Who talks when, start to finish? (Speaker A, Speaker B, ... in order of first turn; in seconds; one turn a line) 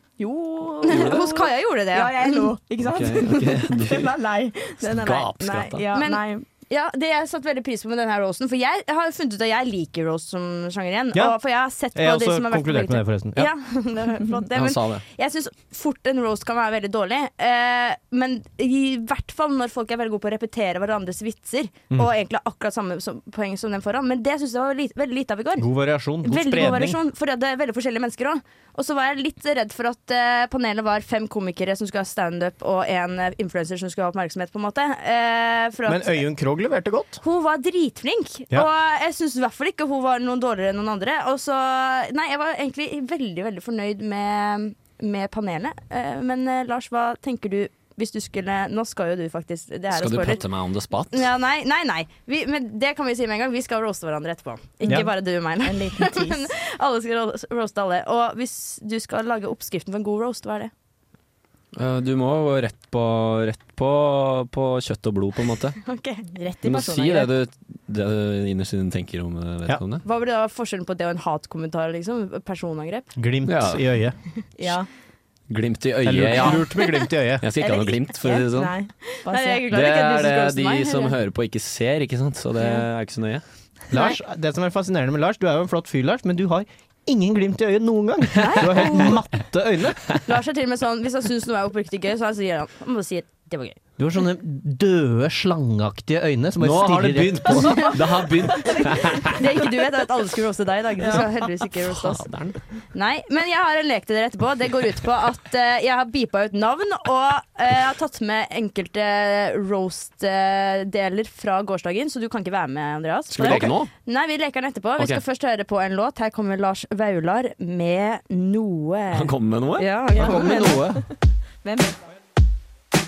Speaker A: 0.2-6.4
Speaker B: 0.8-1.2
Speaker C: 0.8-2.5
Speaker B: 2.8-4.2
Speaker B: 4.8-5.9
Speaker C: 5.9-25.6
Speaker D: 11.9-13.5
Speaker B: 14.5-15.0
Speaker D: 25.6-27.0
Speaker C: 26.2-36.2
Speaker D: 35.9-37.2
Speaker C: 37.2-50.4
Speaker B: 49.9-51.2
Speaker C: 51.1-60.7
Speaker A: 54.8-56.5
Speaker B: 61.7-65.8
Speaker C: 65.8-66.2
Speaker A: 66.3-67.3
Speaker B: 66.6-70.0
Speaker C: 70.0-73.1
Speaker D: 73.2-74.2
Speaker B: 73.5-73.8
Speaker A: 74.6-74.9
Speaker B: 75.5-76.7
Speaker D: 76.0-77.4
Speaker B: 77.4-78.7
Speaker A: 77.6-79.6
Speaker C: 79.2-81.1
Speaker B: 79.7-83.4
Speaker D: 83.9-90.1
Speaker C: 88.4-89.1
Speaker C: 90.2-93.8
Speaker D: 94.0-98.0
Speaker B: 96.6-99.3
Speaker A: 98.7-99.2
Speaker C: 99.3-102.2
Speaker B: 101.8-102.6
Speaker C: 102.9-120.8
Speaker B: 113.3-113.9
Speaker B: 119.1-119.9
Speaker A: 120.1-121.0
Speaker D: 120.1-121.0
Speaker A: 121.6-122.0